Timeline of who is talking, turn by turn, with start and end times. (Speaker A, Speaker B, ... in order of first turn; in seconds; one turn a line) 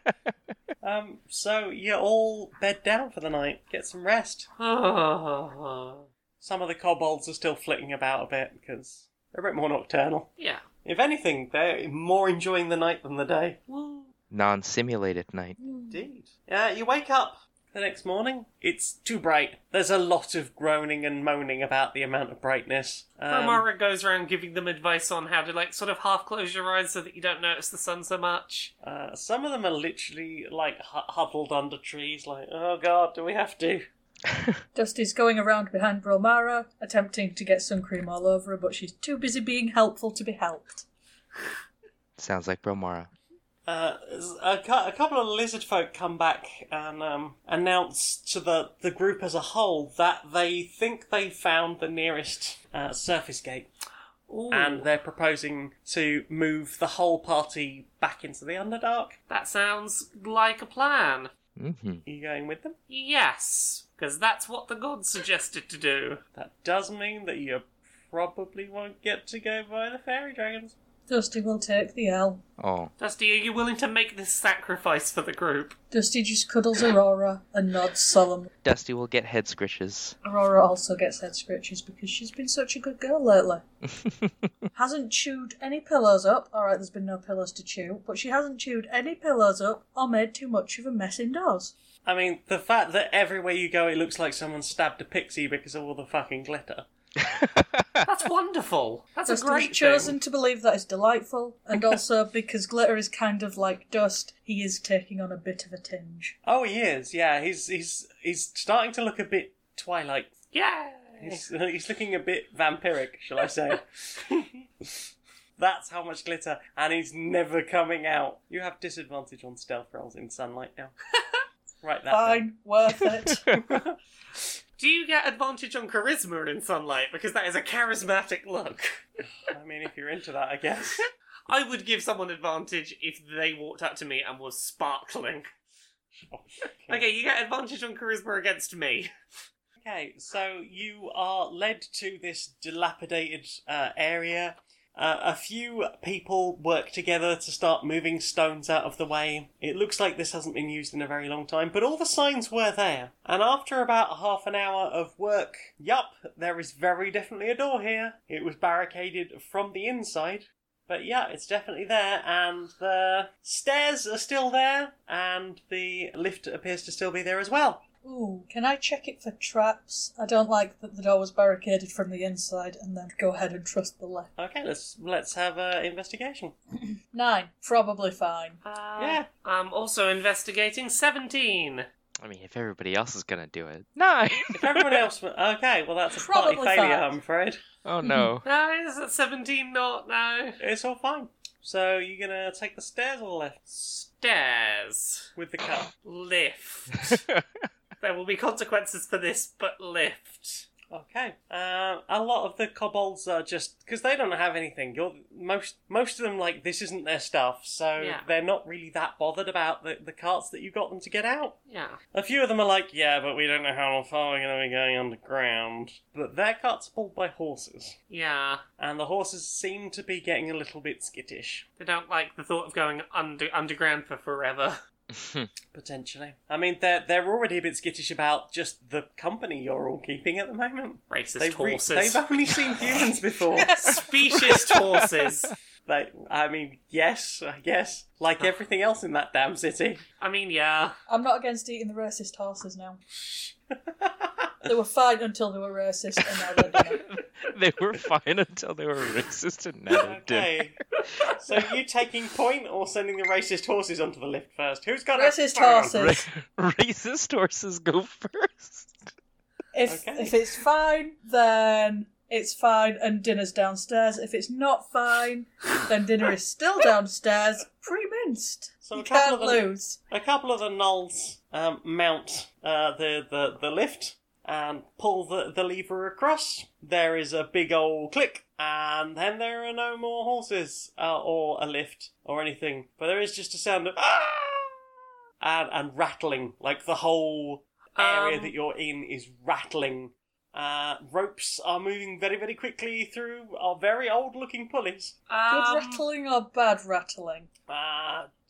Speaker A: 0.8-4.5
Speaker B: 4.6-6.0
Speaker A: 6.4-10.3
Speaker B: 10.4-10.6
Speaker A: 10.8-13.6
Speaker B: 13.7-14.1
Speaker C: 14.3-15.6
Speaker D: 15.6-16.0
Speaker A: 15.9-23.6
Speaker B: 23.3-28.7
Speaker A: 28.8-33.9
Speaker D: 34.7-40.9
Speaker C: 42.2-43.1
Speaker A: 43.6-53.7
Speaker B: 54.3-54.9
Speaker A: 54.5-59.1
Speaker B: 59.3-61.3
Speaker C: 61.6-62.0
Speaker A: 62.0-62.8
Speaker B: 62.9-66.2
Speaker A: 66.3-70.7
Speaker D: 71.1-72.4
Speaker C: 72.6-72.9
Speaker B: 73.0-75.8
Speaker D: 75.9-78.5
Speaker C: 78.6-80.2
Speaker D: 80.2-83.6
Speaker D: 84.7-91.7
Speaker A: 92.0-96.8
Speaker C: 97.3-98.0
Speaker B: 98.0-100.1
Speaker D: 99.2-106.3
Speaker A: 106.4-110.3
Speaker B: 110.5-111.4
Speaker A: 111.2-114.9
Speaker A: 115.6-120.9
Speaker A: 121.8-122.5
Speaker D: 122.1-123.4
Speaker A: 123.5-124.0
Speaker B: 124.8-129.0
Speaker A: 129.5-131.0
Speaker B: 131.5-135.5
Speaker A: 136.3-137.1
Speaker B: 136.9-139.1
Speaker A: 139.8-167.8
Speaker D: 168.0-174.3
Speaker A: 174.4-176.5
Speaker D: 177.1-178.6
Speaker B: 178.6-181.8
Speaker A: 179.0-179.2
Speaker C: 182.2-185.1
Speaker A: 184.5-187.6
Speaker D: 186.2-187.1
Speaker C: 187.8-188.4
Speaker D: 188.0-188.3
Speaker B: 188.4-190.6
Speaker A: 190.6-193.7
Speaker B: 193.7-195.3
Speaker A: 195.3-195.9
Speaker B: 196.0-197.2
Speaker C: 197.0-197.4
Speaker B: 198.0-200.7
Speaker A: 200.9-211.6
Speaker B: 208.0-208.3
Speaker B: 211.7-212.0
Speaker A: 212.1-217.9
Speaker B: 218.1-218.6
Speaker A: 218.8-221.6
Speaker B: 221.8-224.8
Speaker C: 225.1-225.5
Speaker A: 225.7-234.8
Speaker B: 231.1-232.2
Speaker D: 233.6-234.1
Speaker B: 233.7-235.5
Speaker A: 235.8-240.0
Speaker B: 240.2-241.0
Speaker D: 241.1-243.0
Speaker A: 244.0-244.5
Speaker D: 244.6-247.0
Speaker C: 246.7-250.7
Speaker A: 249.9-256.1
Speaker D: 255.1-256.2
Speaker C: 255.9-258.9
Speaker D: 259.7-270.0
Speaker A: 259.9-260.3
Speaker A: 268.8-284.8
Speaker A: 285.4-295.1
Speaker B: 287.9-288.5
Speaker B: 295.3-296.0
Speaker D: 295.5-297.5
Speaker A: 297.7-298.3